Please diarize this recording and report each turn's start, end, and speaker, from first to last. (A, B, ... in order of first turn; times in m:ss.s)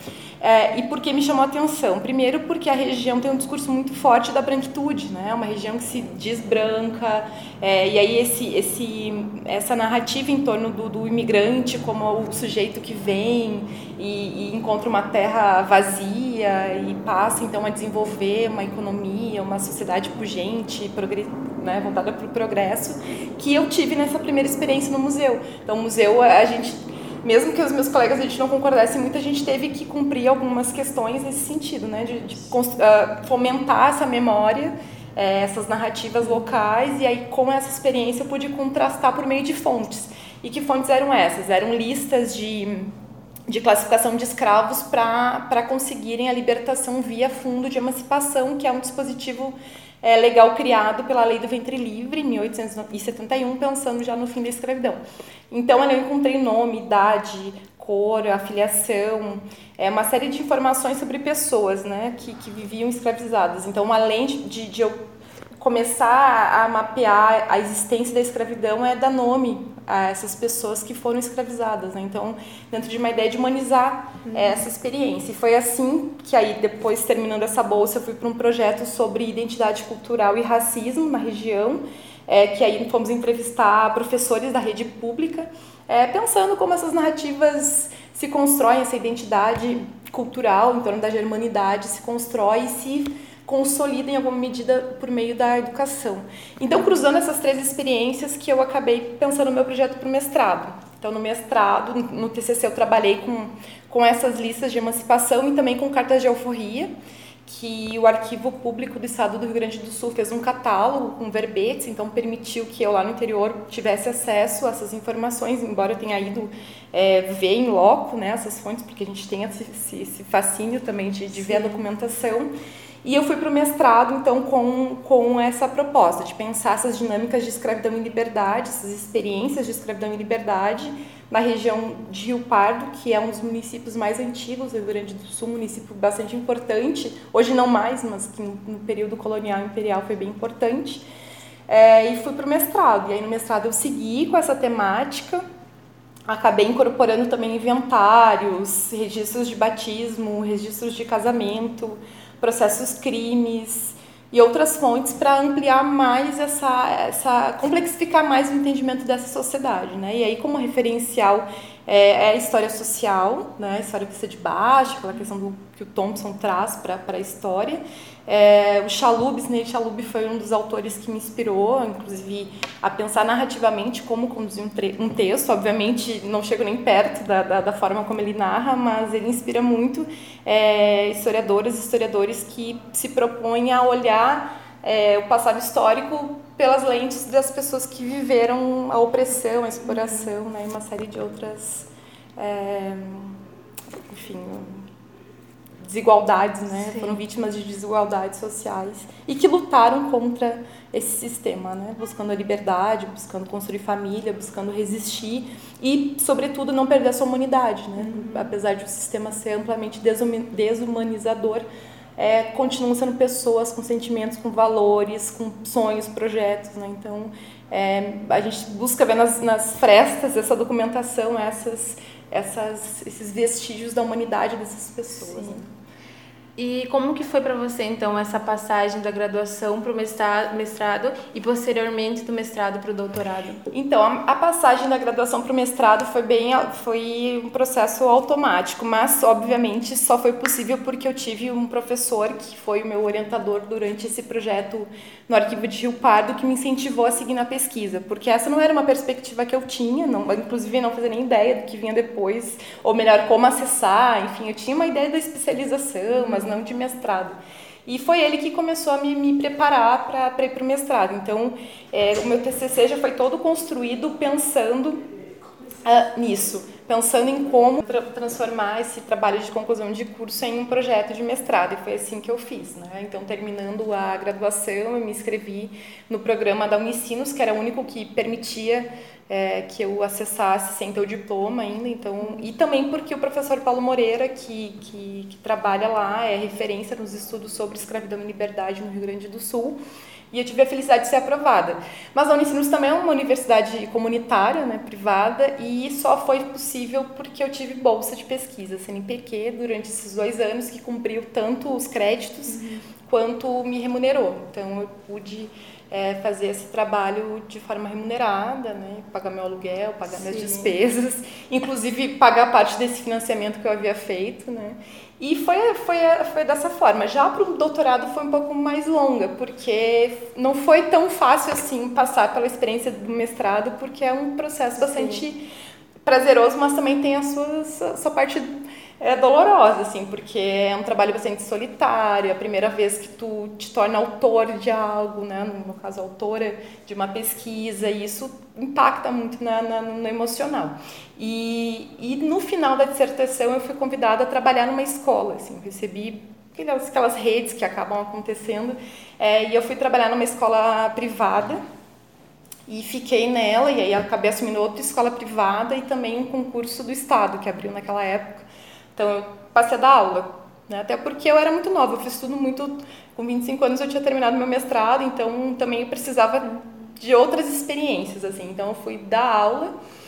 0:00.4-0:42.9 A
0:43.5-0:55.0 A
0:55.5-1:05.0 A
1:05.6-1:46.9 A
1:14.3-1:14.6 B
1:47.4-2:02.5 A
2:01.4-2:01.8 B
2:03.0-2:21.0 A
2:21.7-2:25.4 A
2:26.3-3:13.4 A
3:09.9-3:10.3 B
3:14.1-3:14.8 A
3:15.8-3:31.6 A
3:16.8-3:17.2 B
3:28.0-3:28.5 B
3:32.2-3:45.7 A
3:45.3-3:45.6 B
3:46.6-3:53.6 B
3:53.7-4:25.0 A
4:16.2-4:16.5 B
4:25.8-4:49.8 A
4:42.2-4:42.5 B
4:50.3-5:25.4 A
5:02.5-5:02.8 B
5:10.1-5:10.7 B
5:24.8-5:25.2 B
5:26.0-5:51.6 A
5:52.7-5:58.4 A
5:59.0-6:09.7 A